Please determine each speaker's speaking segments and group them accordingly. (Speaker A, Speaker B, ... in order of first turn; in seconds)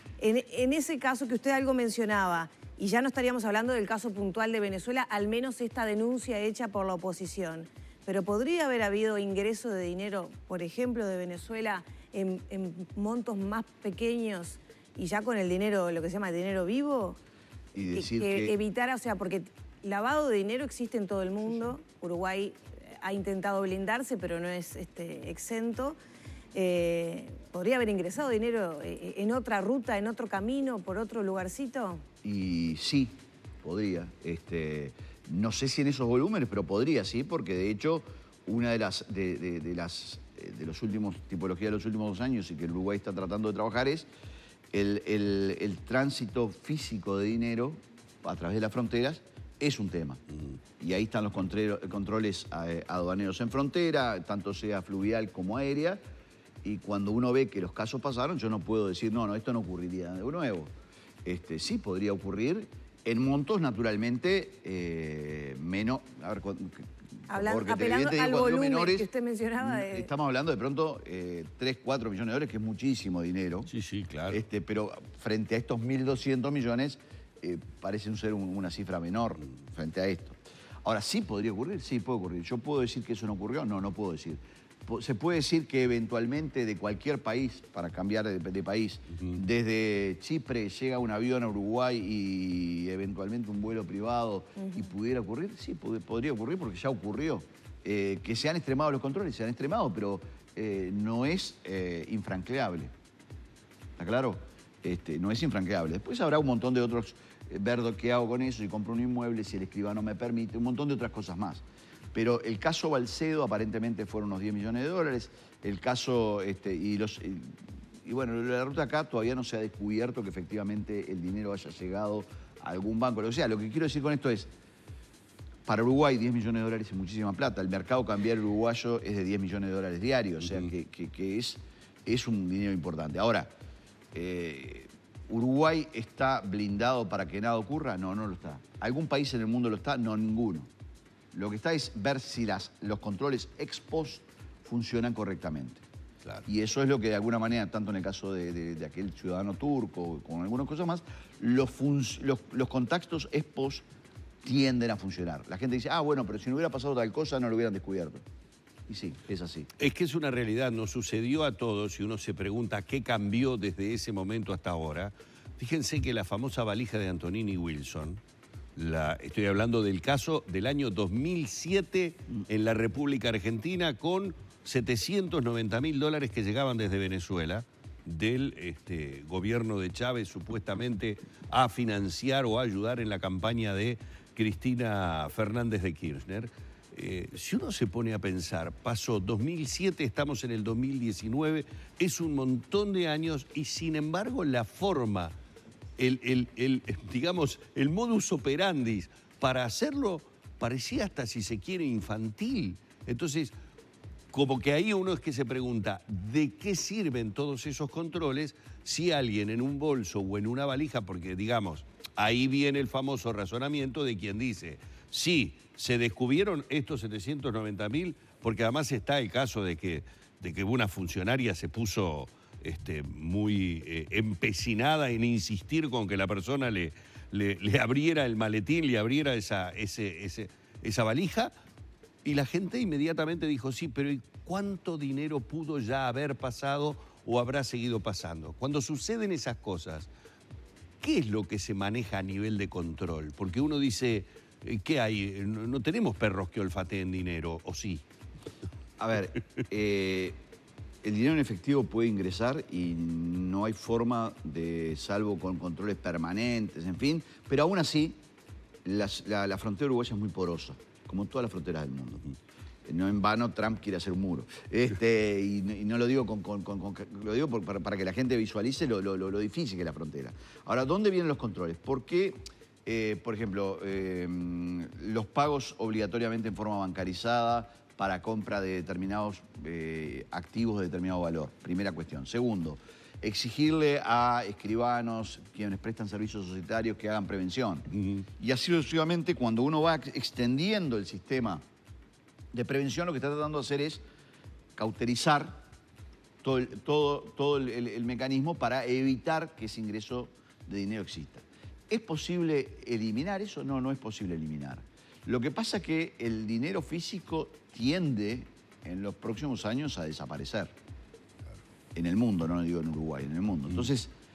Speaker A: 0.2-17.2, 18.0-26.0, 26.5-32.0, 67.3-70.1
Speaker B: 17.8-18.5, 32.2-44.1, 44.7-50.2, 50.8-56.0, 56.6-60.7, 61.2-69.1, 69.6-73.7, 74.3-102.9, 104.0-111.6, 112.1-124.5, 125.7-133.5, 134.1-140.7, 141.3-145.8, 146.4-153.8, 154.4-158.2, 158.9-159.7, 249.0-250.4, 251.0-258.2, 258.8-262.3, 262.9-291.6, 292.5-294.0, 294.8-295.6, 296.4-310.7, 311.9-314.1
Speaker C: 73.7-74.4, 159.8-168.2, 168.8-195.3, 196.0-203.5, 204.3-231.5, 232.2-240.1, 241.0-248.0, 287.9-288.3